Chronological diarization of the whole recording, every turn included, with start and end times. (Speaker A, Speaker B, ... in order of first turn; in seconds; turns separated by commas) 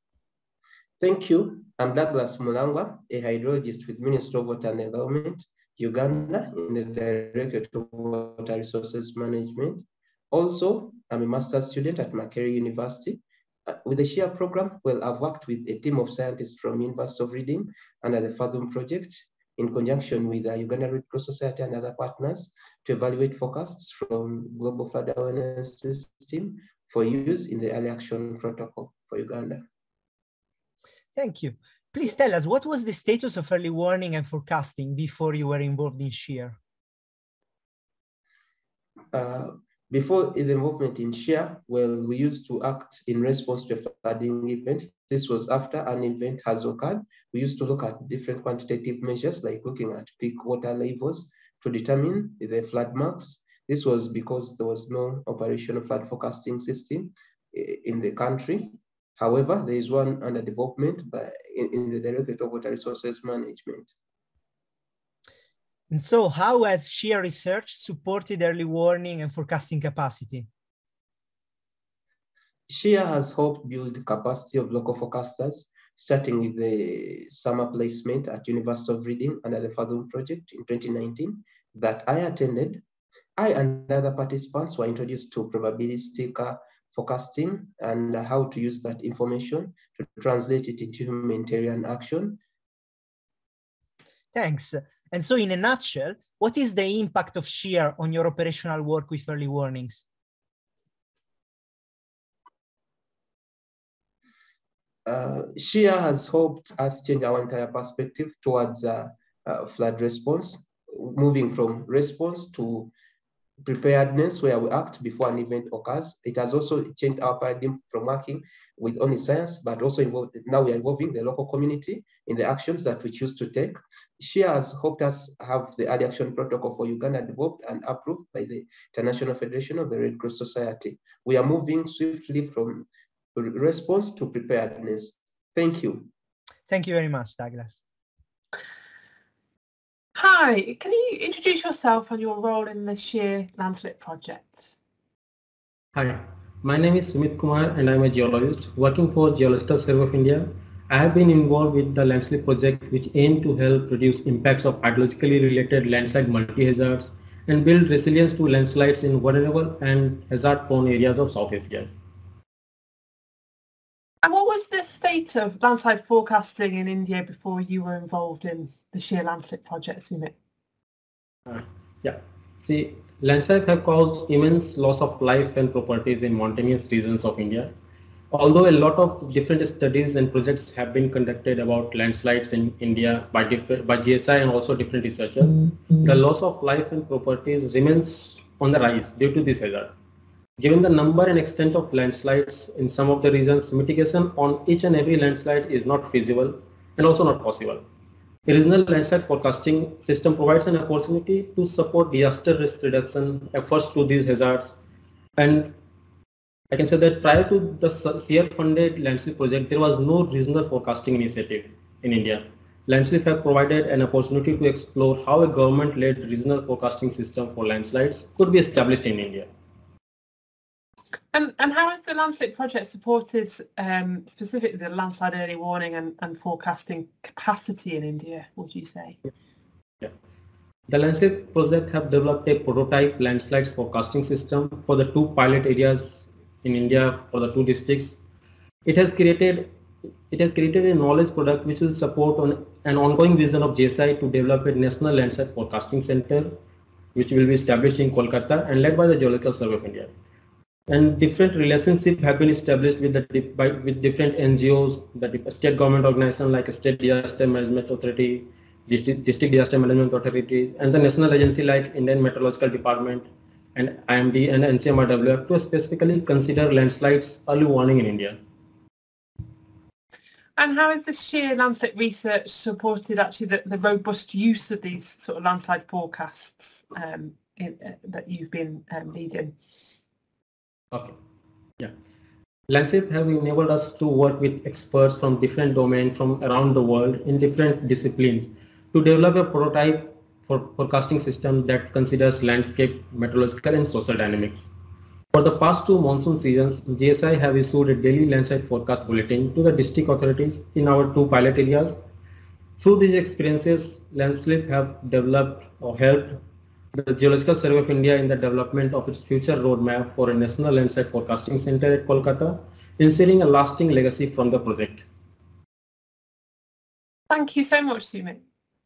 Speaker A: 1.0-29.6, Speaker B: 31.1-36.6, Speaker A: 39.1-63.9, Speaker B: 65.9-70.5, Speaker A: 72.7-82.8, Speaker A: 83.4-92.4, Speaker B: 94.3-100.0, Speaker A: 105.1-112.9, Speaker A: 113.6-136.1, Speaker B: 136.7-137.8, Speaker C: 140.2-144.7, Speaker D: 145.9-161.9, Speaker C: 164.2-170.3, Speaker D: 171.5-177.8, Speaker D: 178.3-189.9, Speaker D: 190.6-197.9, Speaker D: 198.5-204.8, Speaker D: 205.4-205.8, Speaker D: 206.7-219.5, Speaker C: 221.3-229.2, Speaker D: 230.9-238.2, Speaker D: 238.8-239.7, Speaker D: 240.3-246.6, Speaker D: 247.2-250.1, Speaker D: 250.9-268.4, Speaker C: 270.6-279.8, Speaker D: 280.9-281.2, Speaker D: 282.7-294.7, Speaker D: 295.3-302.0, Speaker D: 302.8-306.4, Speaker D: 306.9-315.1, Speaker C: 317.3-318.4